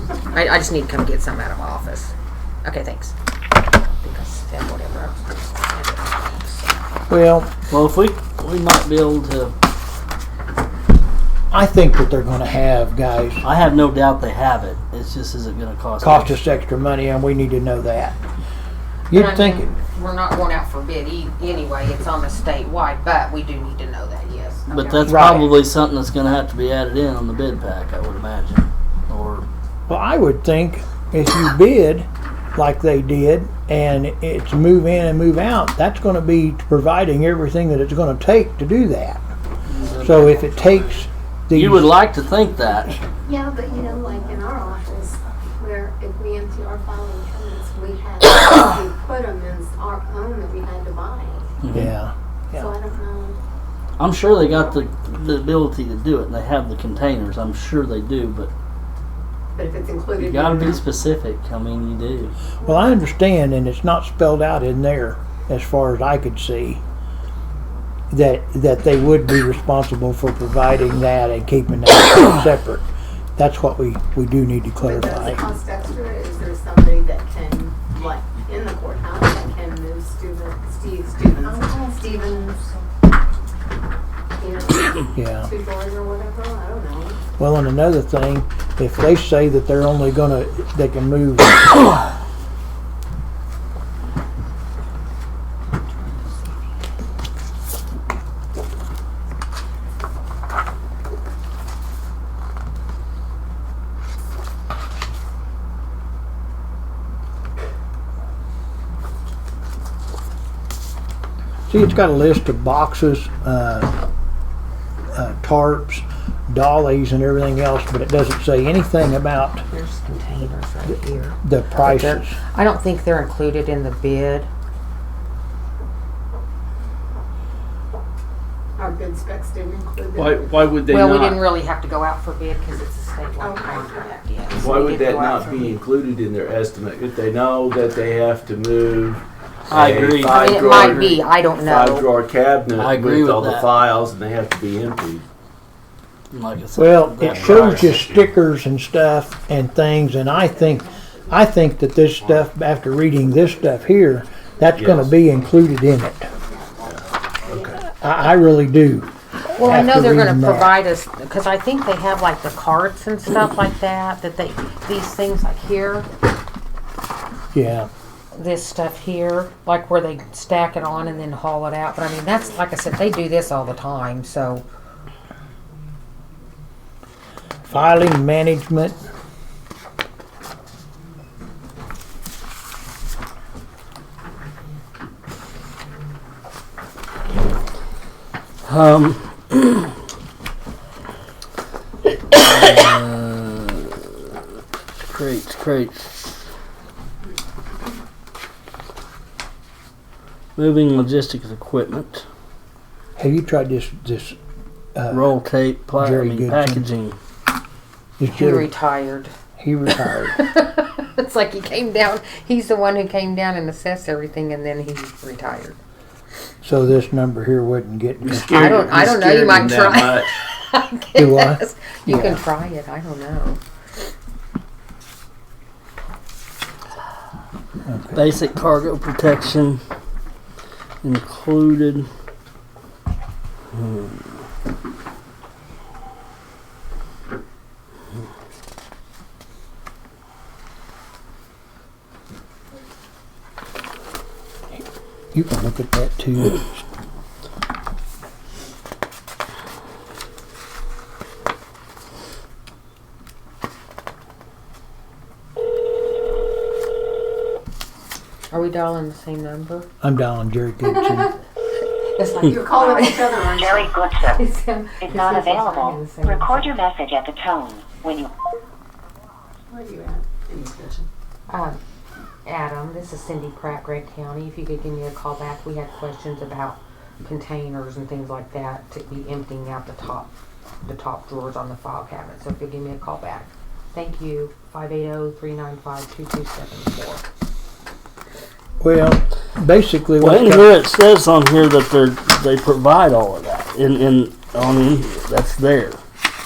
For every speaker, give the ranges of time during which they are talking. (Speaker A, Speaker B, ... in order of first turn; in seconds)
Speaker A: 0.2-2.1, 2.6-3.1, 4.0-6.7, 19.1-25.5, 119.7-124.5, 130.9-135.8, 140.3-142.1, 159.6-166.1, 168.3-174.6, 208.3-209.3, 210.3-215.8, 218.5-223.6, 258.5-259.9, 260.9-261.3, 262.1-263.4, 264.3-266.8, 271.5-271.8, 272.4-280.3, 280.8-287.2
Speaker B: 7.1-7.5, 11.5-13.4, 16.0-18.2, 19.1-19.7, 25.1-25.5, 29.9-39.2, 40.0-41.9, 51.7-52.7, 62.6-66.8, 68.1-72.8, 73.3-75.4, 85.1-85.5, 87.4-91.9, 111.7-113.9, 115.1-119.6, 121.4-122.4, 146.7-156.3, 157.8-160.7, 167.5-167.9, 177.7-179.0, 203.2-204.3, 204.9-205.3, 206.0-206.8, 208.2-208.7, 209.6-210.4, 216.6-218.6, 221.2-222.4, 227.8-228.2, 244.7-246.8, 260.0-261.4, 288.8-290.7
Speaker C: 7.7-9.5, 13.4-16.3, 24.7-29.5, 39.7-43.0, 51.6-51.9, 54.0-58.5, 60.2-62.4, 130.5-131.1, 139.7-141.2, 142.8-143.8, 146.3-147.9, 188.6-189.9, 192.3-194.1, 194.9-196.4, 200.5-202.2, 205.1-207.2, 228.1-229.8, 231.0-232.1, 233.7-234.4, 290.2-296.0
Speaker D: 43.2-51.5, 52.5-53.4, 59.5-60.8, 74.8-82.6, 84.4-87.2, 128.8-130.6, 133.4-134.4, 150.7-151.3, 156.5-156.8, 262.4-264.1, 269.7-271.1
Speaker E: 130.2-131.4, 134.6-145.2, 147.3-148.3, 154.7-155.2, 156.8-157.8, 218.2-220.4
Speaker F: 263.5-264.4, 265.0-268.3